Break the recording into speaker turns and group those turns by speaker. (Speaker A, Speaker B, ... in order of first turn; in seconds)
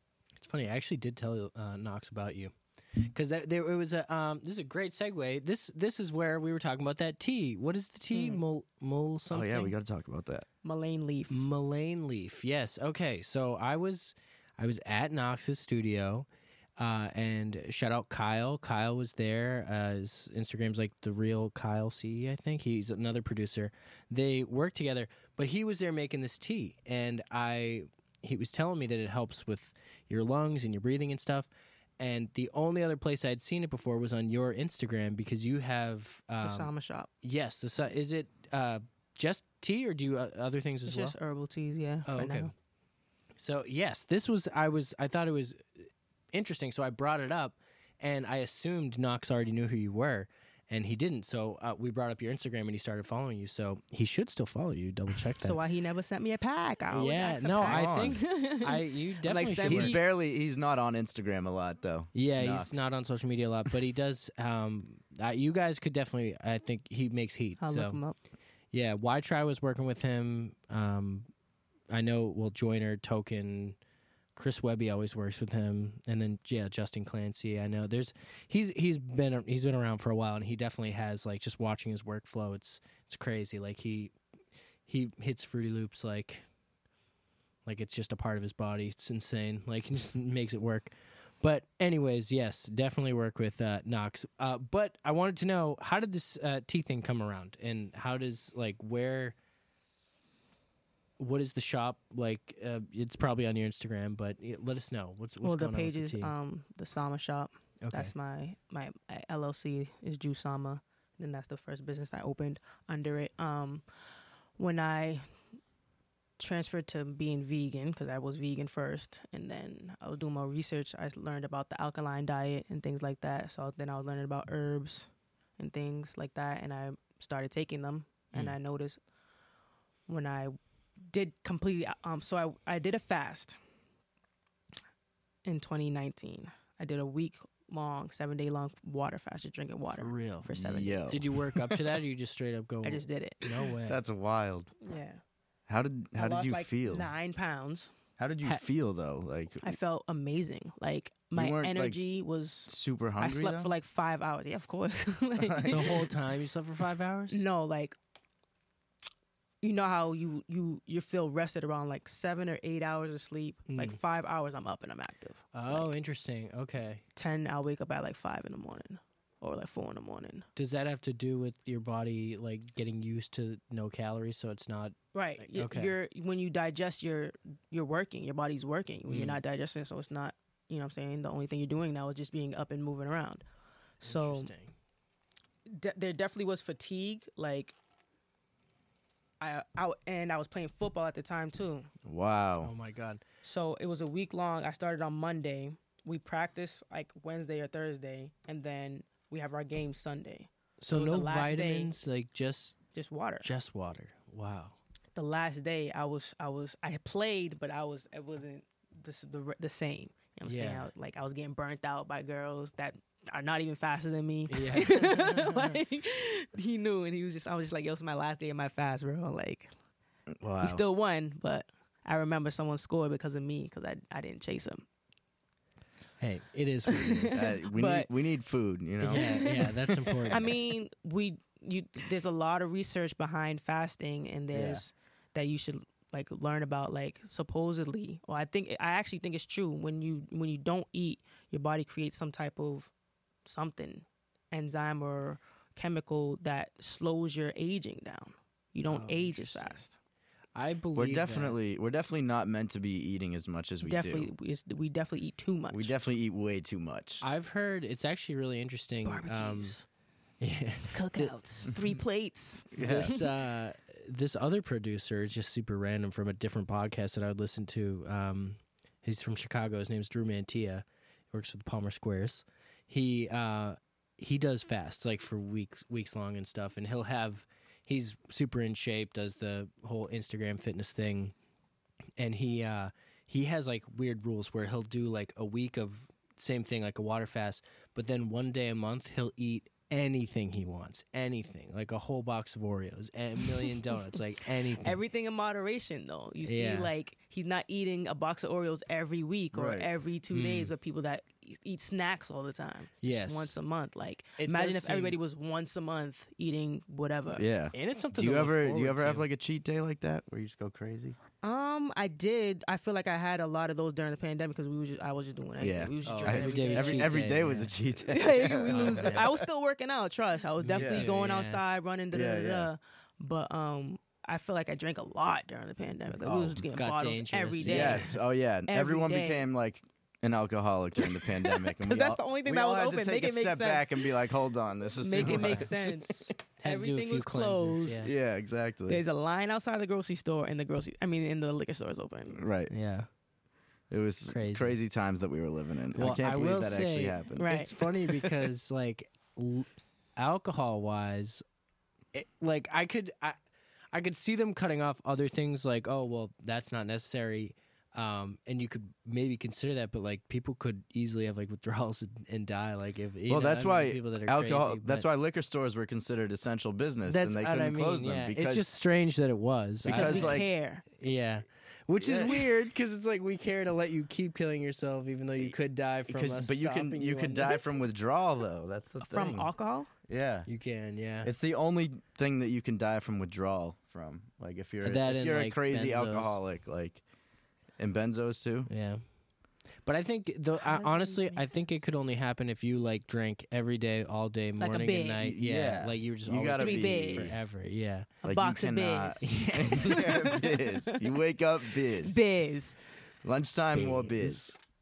Speaker A: 0.4-9.7, 11.3-36.7, 37.2-41.1, 42.0-42.5, 43.4-55.6, 56.9-60.0, 62.1-68.0, 68.7-71.3, 71.9-73.8, 74.3-84.1, 84.9-86.4, 87.6-99.3, 101.2-106.3, 107.8-108.1, 139.9-144.0, 155.7-157.4, 163.7-164.0, 165.5-167.0, 170.6-175.9, 179.1-179.3, 184.0-184.7, 192.6-193.2, 200.8-202.8, 203.4-204.8, 210.5-210.9, 214.5-215.8, 220.4-220.8, 226.2-227.4, 229.0-230.5, 248.9-249.8, 250.5-251.6, 257.2-259.8, 260.4-261.3, 262.8-281.3, 282.2-295.0, 296.4-296.9, 300.3-300.7, 303.0-303.6, 304.4-305.2, 307.7-309.2, 316.0-317.7, 318.7-319.2, 320.6-321.6, 326.2-328.1, 335.2-338.1, 342.7-343.1, 344.3-344.8, 345.9-351.4, 352.1-353.4, 353.9-365.1, 367.1-377.6, 380.5-381.3, 384.8-386.4, 388.7-389.0, 389.8-398.1, 399.2-399.9, 403.7-404.4
Speaker B: 8.1-8.4, 10.6-11.4, 36.4-37.1, 40.8-42.5, 55.4-60.1, 67.6-68.2, 105.4-113.8, 114.6-115.3, 116.4-129.0, 130.1-130.6, 131.1-133.6, 135.4-141.2, 142.8-143.5, 144.8-145.2, 146.2-147.9, 149.6-156.1, 157.3-157.9, 159.6-165.9, 167.2-170.5, 175.1-183.4, 184.0-184.5, 185.7-187.7, 189.4-191.9, 193.4-201.9, 202.9-203.5, 205.1-219.7, 220.6-224.8, 226.9-228.1, 229.1-229.7, 230.3-242.9, 243.4-249.9, 253.8-255.9, 259.0-259.9, 260.9-263.3, 294.7-307.4, 311.4-317.3, 318.1-329.5, 331.0-334.1, 335.0-338.1, 338.9-342.4, 347.4-347.8, 369.9-370.8, 379.0-379.9, 390.6-391.8, 394.6-395.3, 396.6-397.5, 398.2-401.2, 401.9-402.8
Speaker C: 9.3-10.4, 57.6-58.2, 59.7-62.9, 140.5-141.9, 143.8-144.7, 145.7-147.1, 148.2-149.8, 151.3-152.0, 152.7-153.7, 155.4-155.9, 192.0-192.7, 227.3-230.3, 234.5-234.9, 250.9-254.3, 255.7-257.2, 262.7-263.1, 299.5-299.9, 307.3-311.2, 315.6-319.4, 320.7-321.1, 322.1-322.7, 327.6-335.9, 338.0-339.0, 342.3-342.7, 343.9-347.5, 363.3-368.7, 369.8-370.5, 372.0-372.5, 376.1-379.5, 380.1-380.5, 381.2-387.0, 387.8-388.7, 395.2-397.5, 398.2-402.2, 403.2-404.6